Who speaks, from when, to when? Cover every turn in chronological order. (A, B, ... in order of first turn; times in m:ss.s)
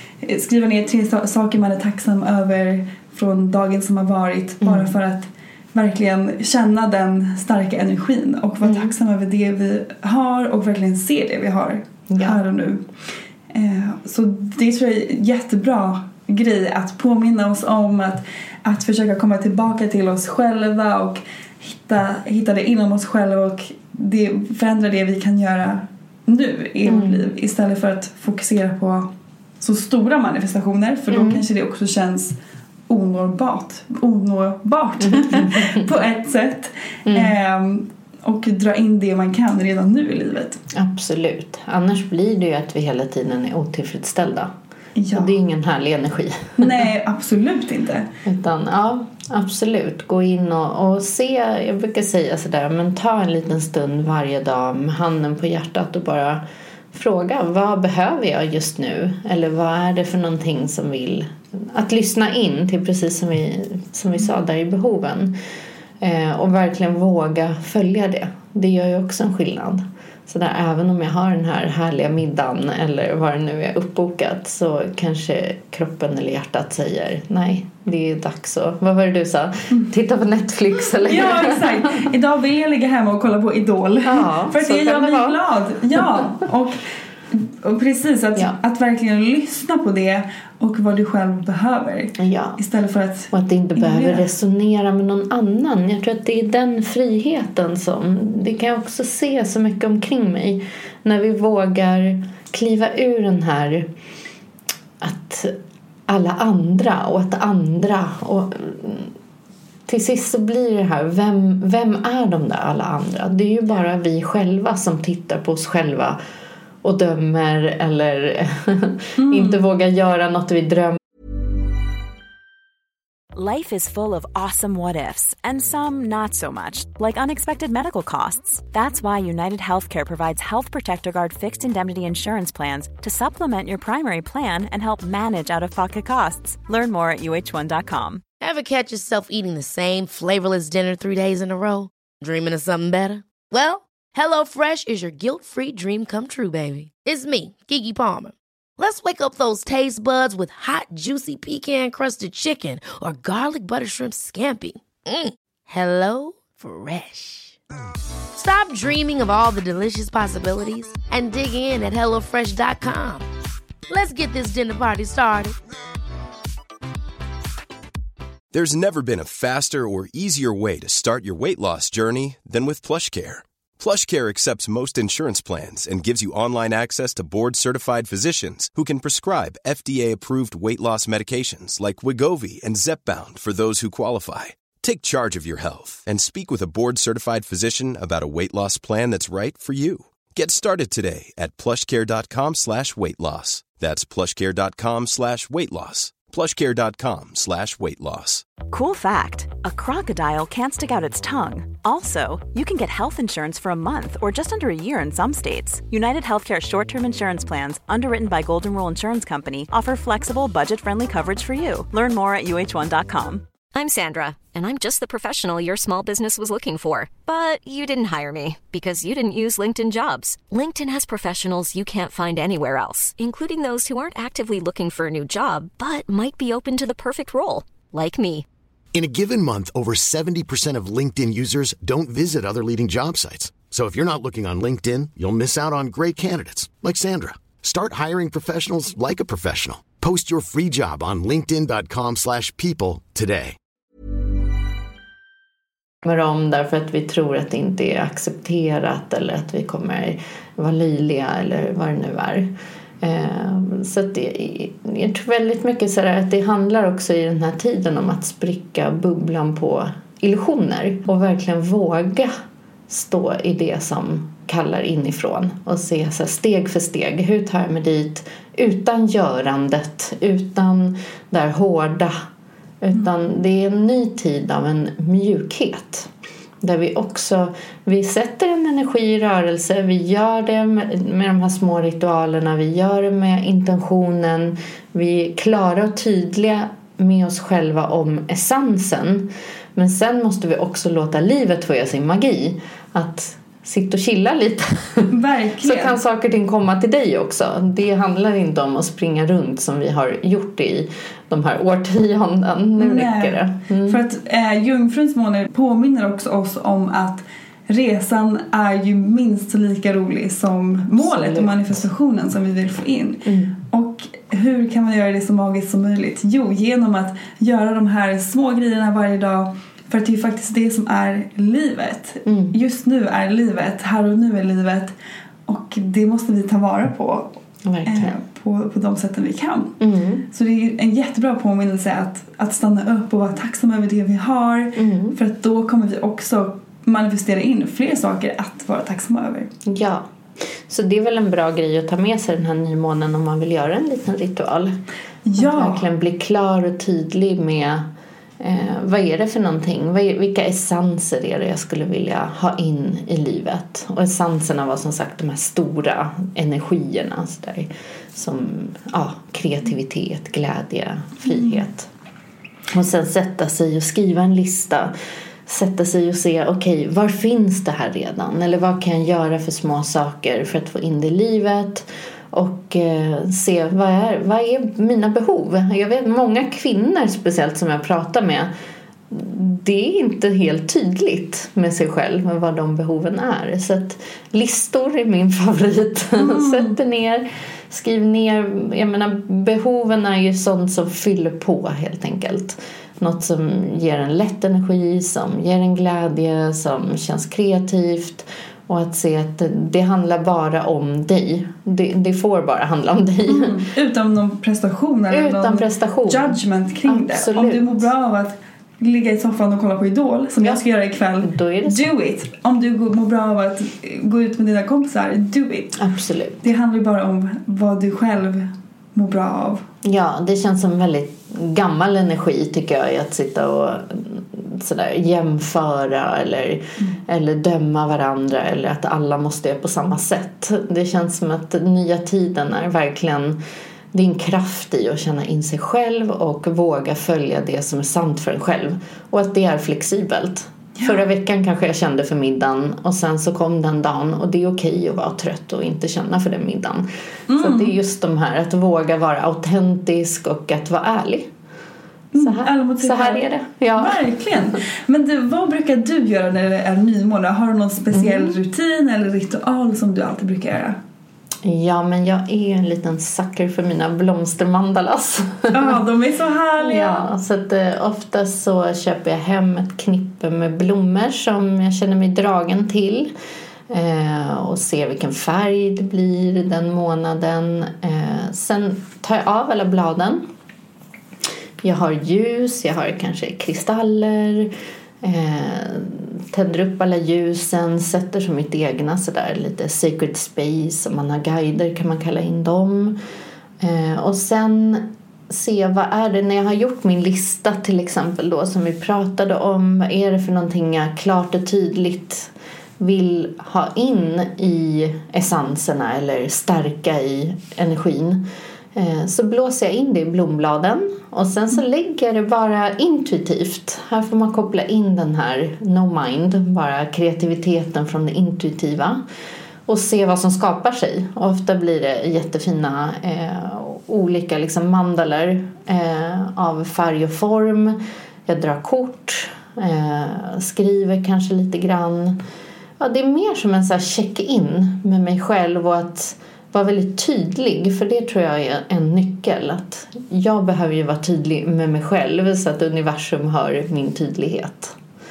0:00.2-0:12.8 A
0:04.6-0:04.9 B
0:08.6-0:08.9 B
0:12.1-0:12.4 B
0:13.5-0:29.1 A
0:26.9-0:27.3 B
0:29.6-0:32.4 A
0:31.1-0:31.4 B
0:32.9-0:40.6 A
0:35.1-0:35.8 B
0:37.1-0:37.3 B
0:40.7-0:44.5 B
0:45.0-0:45.4 A
0:45.1-0:46.9 B
0:46.6-0:48.1 A
0:48.2-1:05.4 B
1:06.0-1:22.0 B
1:21.0-1:34.2 A
1:24.0-1:25.4 B
1:32.2-1:32.6 B
1:33.3-1:43.9 B
1:45.0-1:45.6 B
1:46.1-1:49.1 B
1:49.9-1:56.2 B
1:56.8-2:01.0 B
1:59.2-1:59.6 A
2:03.4-2:18.2 C
2:18.4-2:37.6 D
2:38.4-2:43.3 D
2:43.9-2:45.6 D
2:48.5-3:18.5 E
3:18.7-3:33.5 C
3:33.7-3:48.4 F
3:48.9-4:03.6 G
4:06.0-4:22.3 B
4:22.9-4:32.1 B
4:32.8-4:36.1 B
4:36.6-5:04.0 B
4:55.1-4:56.0 A
5:02.8-5:24.9 A
5:11.0-5:11.8 B
5:13.3-5:13.6 B
5:22.3-5:22.6 B
5:25.5-5:29.8 A
5:27.6-5:28.1 B
5:29.8-5:30.3 B
5:30.3-5:39.5 A
5:34.8-5:35.2 B
5:39.6-5:40.0 B
5:40.7-5:44.8 B
5:45.3-5:45.9 A
5:45.4-5:47.9 B
5:48.4-6:01.9 B
6:01.2-6:01.6 A
6:02.7-6:04.9 B
6:05.5-6:18.5 B
6:19.1-6:43.6 B
6:26.2-6:26.8 A
6:43.3-6:55.8 A
6:45.1-6:47.8 B
6:51.2-6:51.9 B
6:55.8-6:56.4 B
6:56.4-6:59.6 A
6:59.8-7:13.4 B
7:13.9-7:26.9 B
7:20.8-7:21.0 A
7:27.3-7:27.8 A
7:27.4-7:31.3 B
7:32.1-7:40.8 A
7:32.2-7:34.0 B
7:37.9-7:38.4 B
7:41.4-7:45.8 B
7:45.5-7:47.0 A
7:46.6-7:53.1 B
7:53.7-8:00.2 B
8:01.6-8:13.0 B
8:13.6-8:39.0 B
8:39.7-8:52.2 B
8:52.8-9:04.8 B